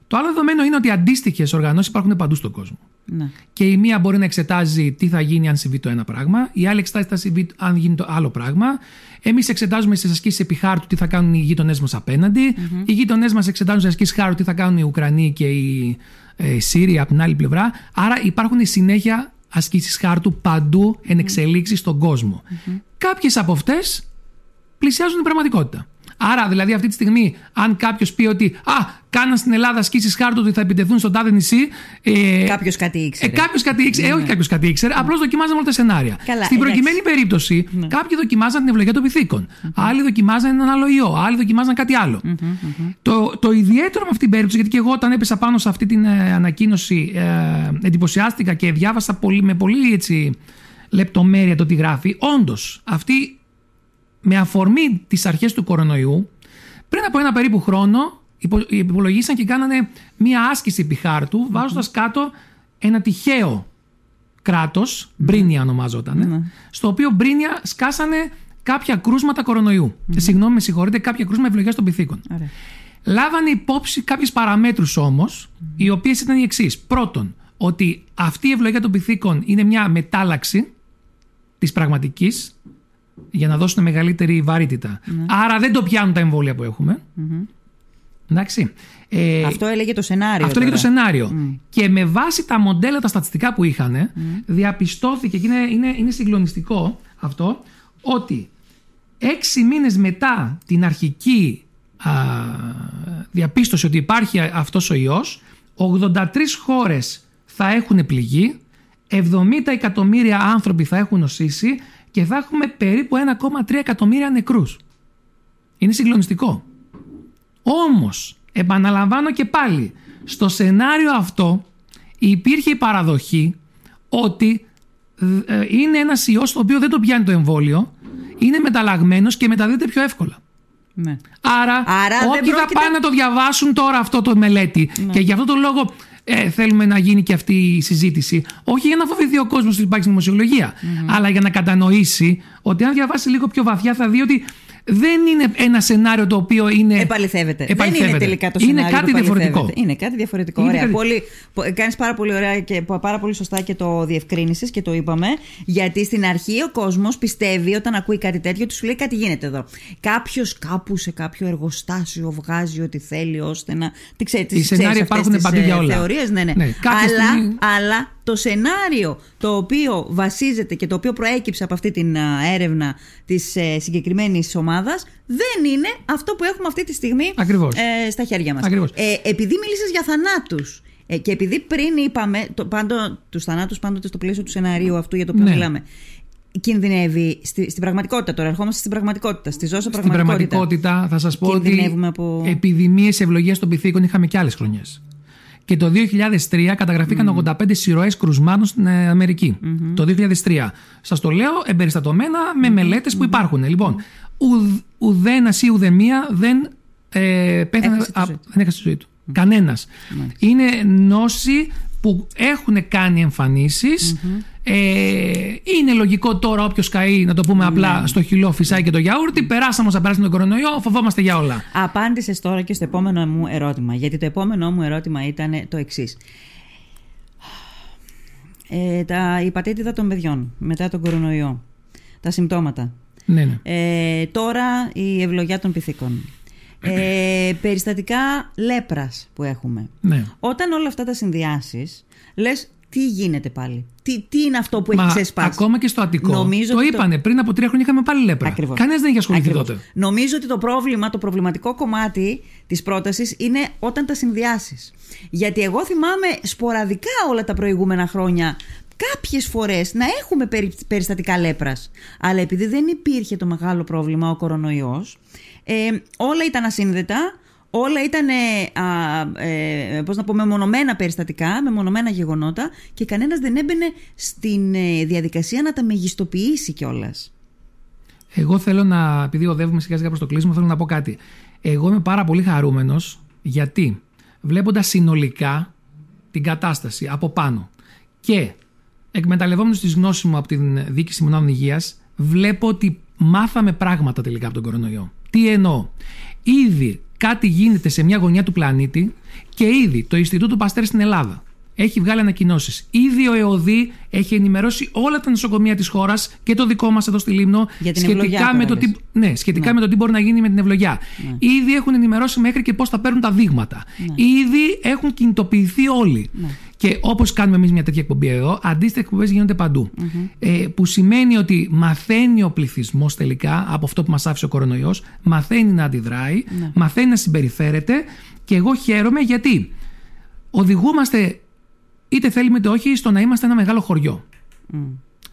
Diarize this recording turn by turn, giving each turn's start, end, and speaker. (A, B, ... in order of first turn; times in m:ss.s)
0:00.1-0:02.8 A
0:03.1-0:03.4 B
0:03.5-0:24.1 A
0:12.6-0:12.9 B
0:24.8-0:32.6 A
0:32.4-0:34.3 B
0:33.2-0:42.2 A
0:36.2-0:37.0 B
0:42.2-0:42.9 B
0:43.0-0:50.4 A
0:50.9-0:53.4 A
0:54.2-0:56.3 A
0:56.9-1:03.7 A
1:04.4-1:12.2 A
1:05.2-1:05.5 B
1:06.2-1:06.5 B
1:10.1-1:10.3 B
1:13.0-1:20.7 A
1:21.6-1:22.5 A
1:23.3-1:27.0 A
1:27.2-1:27.5 B
1:28.3-1:29.6 A
1:29.4-1:31.6 B
1:30.4-1:38.5 A
1:34.2-1:34.4 B
1:39.2-1:48.6 A
1:49.1-1:54.8 A
1:55.8-1:56.6 A
1:57.6-2:01.7 A
2:02.2-2:03.6 A
2:04.1-2:04.6 A
2:05.2-2:10.4 A
2:11.0-2:11.2 B
2:11.4-2:27.1 A
2:11.9-2:13.0 B
2:15.0-2:15.2 B
2:20.8-2:21.2 B
2:27.0-3:05.8 B
2:27.7-2:29.7 A
2:30.6-2:31.0 A
2:44.6-2:47.6 A
2:57.4-2:57.8 A
2:58.6-2:59.0 A
3:05.4-3:05.7 A
3:06.6-3:10.7 B
3:09.9-3:15.0 A
3:11.4-3:12.6 B
3:15.7-3:41.7 A
3:17.1-3:17.5 B
3:19.6-3:20.0 B
3:22.9-3:23.4 B
3:27.8-3:28.4 B
3:30.1-3:30.4 B
3:34.0-3:34.4 B
3:37.6-3:38.2 B
3:41.7-3:46.2 B
3:48.7-3:51.6 B
3:52.2-3:52.9 B
3:53.3-3:53.6 A
3:53.6-3:56.3 B
3:56.8-4:05.6 B
4:00.0-4:00.3 A
4:04.9-4:09.8 A
4:06.2-4:07.0 B
4:08.4-4:37.3 B
4:38.3-4:45.7 A
4:46.3-4:47.7 A
4:48.2-4:48.6 A
4:49.1-4:55.9 A
4:56.4-5:29.7 A
5:07.8-5:08.9 B
5:20.0-5:20.3 B
5:30.5-5:31.4 A
5:32.1-5:34.2 A
5:34.7-5:35.0 B